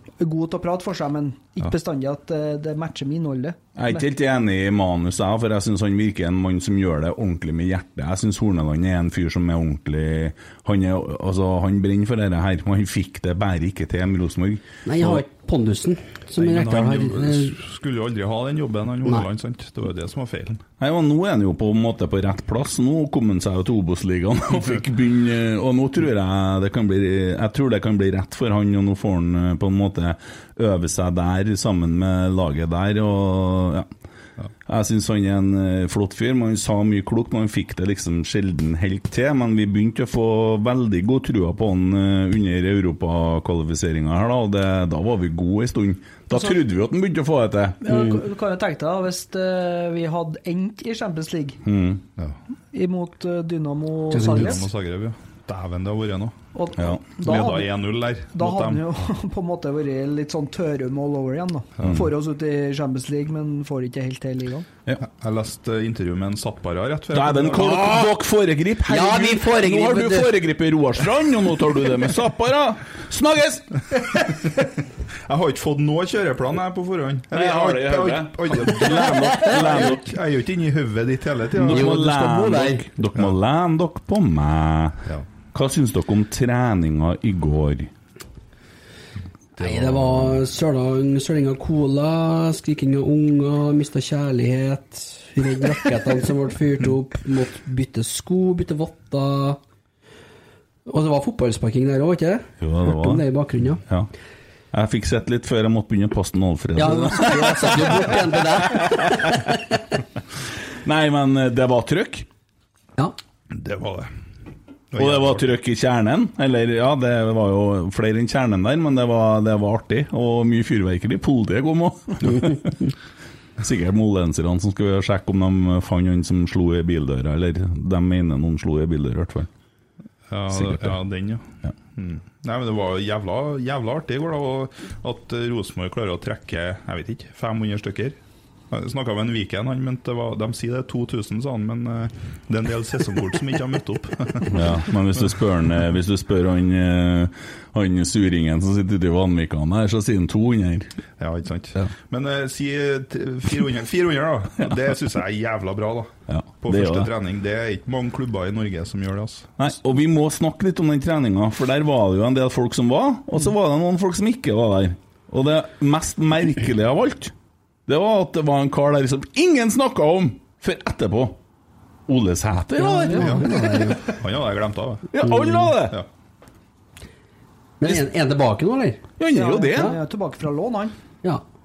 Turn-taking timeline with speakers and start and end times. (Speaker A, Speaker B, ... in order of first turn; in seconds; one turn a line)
Speaker A: 0.2-4.0
Speaker B: 3.8-15.2
Speaker C: 14.8-17.6
Speaker D: 16.4-20.6
Speaker B: 20.8-33.9
Speaker B: 34.7-47.8
Speaker A: 46.3-46.6
Speaker A: 47.8-51.6
Speaker B: 51.6-52.0
Speaker A: 52.7-54.7
Speaker C: 54.1-54.6
Speaker D: 54.3-56.4
Speaker A: 56.5-57.7
Speaker D: 57.2-58.9
Speaker A: 58.3-64.7
Speaker D: 61.8-62.1
Speaker D: 65.0-68.0
Speaker B: 67.1-73.9
Speaker C: 68.8-70.4
Speaker D: 75.3-81.9
Speaker B: 77.3-80.1
Speaker B: 81.6-87.9
Speaker C: 81.6-82.9
Speaker D: 89.6-90.3
Speaker C: 89.6-99.6
Speaker C: 100.9-103.8
Speaker B: 102.6-103.2
Speaker B: 104.7-109.4
Speaker C: 106.8-109.8
Speaker B: 110.8-112.3
Speaker D: 113.5-114.1
Speaker D: 114.9-115.4
Speaker B: 115.0-122.9
Speaker B: 123.6-129.5
Speaker D: 130.3-138.2
Speaker B: 130.5-130.9
Speaker D: 138.7-144.6
Speaker B: 144.5-150.9
Speaker D: 151.2-159.5
Speaker B: 156.3-157.1
Speaker B: 159.6-167.3
Speaker B: 167.9-171.4
Speaker B: 172.1-173.5
Speaker C: 172.8-174.1
Speaker D: 173.2-175.1
Speaker B: 175.1-176.0
Speaker C: 175.2-175.7
Speaker C: 177.8-179.1
Speaker B: 179.2-179.9
Speaker A: 179.3-180.9